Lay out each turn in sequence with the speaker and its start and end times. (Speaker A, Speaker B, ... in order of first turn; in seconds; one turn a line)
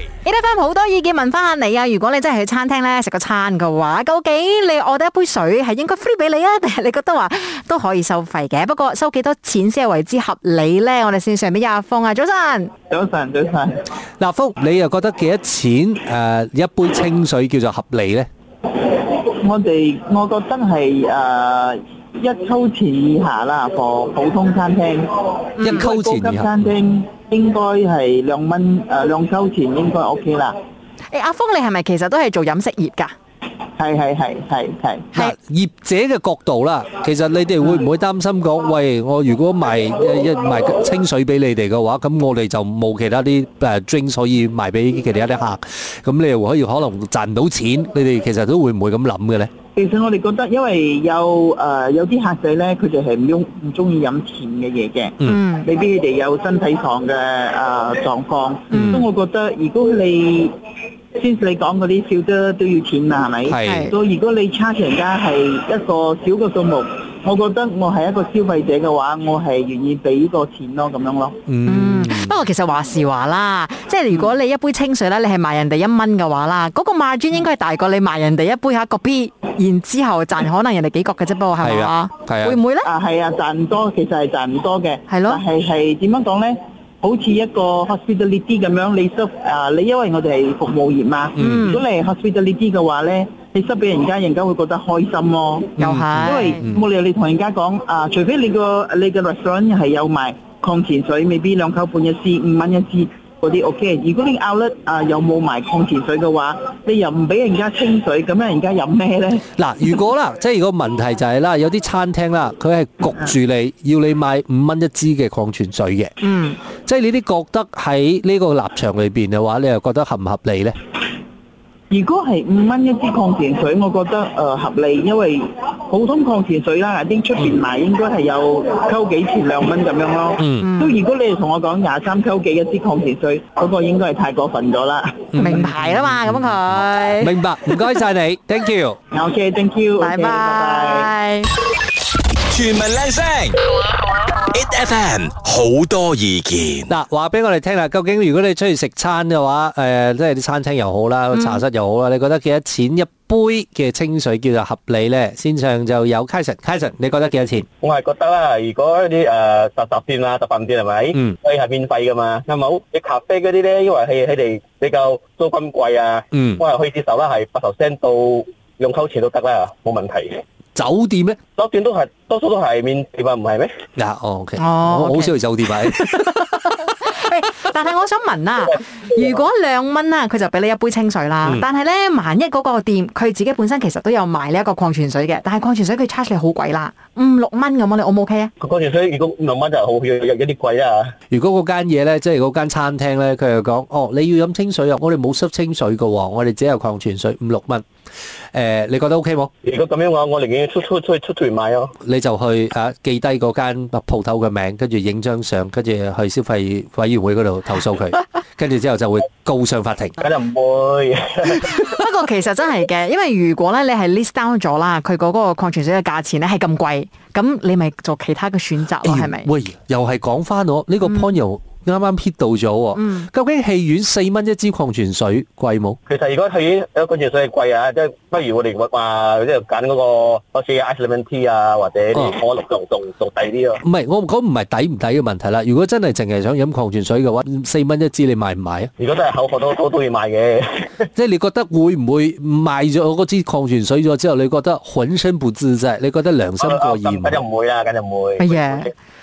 Speaker A: 0.2-12.7
Speaker B: 12.9-13.8
Speaker C: 14.2-18.3
Speaker B: 19.4-30.5
Speaker A: 25.6-25.8
Speaker C: 25.6-26.6
Speaker A: 31.1-33.1
Speaker B: 33.8-35.0
Speaker C: 35.1-49.5
Speaker B: 49.8-60.5
Speaker A: 55.2-55.7
Speaker A: 58.7-59.0
Speaker C: 58.7-59.0
Speaker B: 61.2-71.4
Speaker C: 63.5-63.9
Speaker A: 63.6-63.9
Speaker C: 71.5-72.4
Speaker A: 71.7-82.9
Speaker C: 81.6-82.6
Speaker B: 82.8-109.4
Speaker A: 85.1-85.4
Speaker C: 91.4-91.7
Speaker A: 91.4-91.8
Speaker A: 95.8-96.6
Speaker C: 95.8-96.8
Speaker C: 109.6-116.2
Speaker A: 116.2-116.6
Speaker C: 116.8-120.8
Speaker B: 121.9-135.3
Speaker C: 130.4-130.7
Speaker A: 130.6-131.0
Speaker C: 135.3-136.6
Speaker A: 135.4-137.8
Speaker C: 137.2-139.0
Speaker B: 139.1-141.1
Speaker A: 140.0-141.5
Speaker D: 142.5-143.6
Speaker D: 144.5-146.9
Speaker C: 146.9-157.7
Speaker A: 151.3-151.6
Speaker E: 157.8-170.4
Speaker C: 166.3-166.6
Speaker C: 170.7-171.4
Speaker E: 171.6-173.7
Speaker C: 174.0-176.7
Speaker A: 174.6-176.4
Speaker A: 176.9-188.5
Speaker E: 188.6-191.1
Speaker C: 191.3-197.8
Speaker C: 198.5-199.5
Speaker E: 199.6-201.9
Speaker C: 202.0-210.2
Speaker E: 210.2-211.9
Speaker A: 211.8-219.5
Speaker C: 219.0-226.0
Speaker A: 221.0-221.3
Speaker A: 222.9-223.3
Speaker E: 226.1-233.8
Speaker C: 233.8-238.9
Speaker E: 239.0-241.1
Speaker C: 241.1-247.4
Speaker E: 246.6-248.9
Speaker A: 248.4-248.9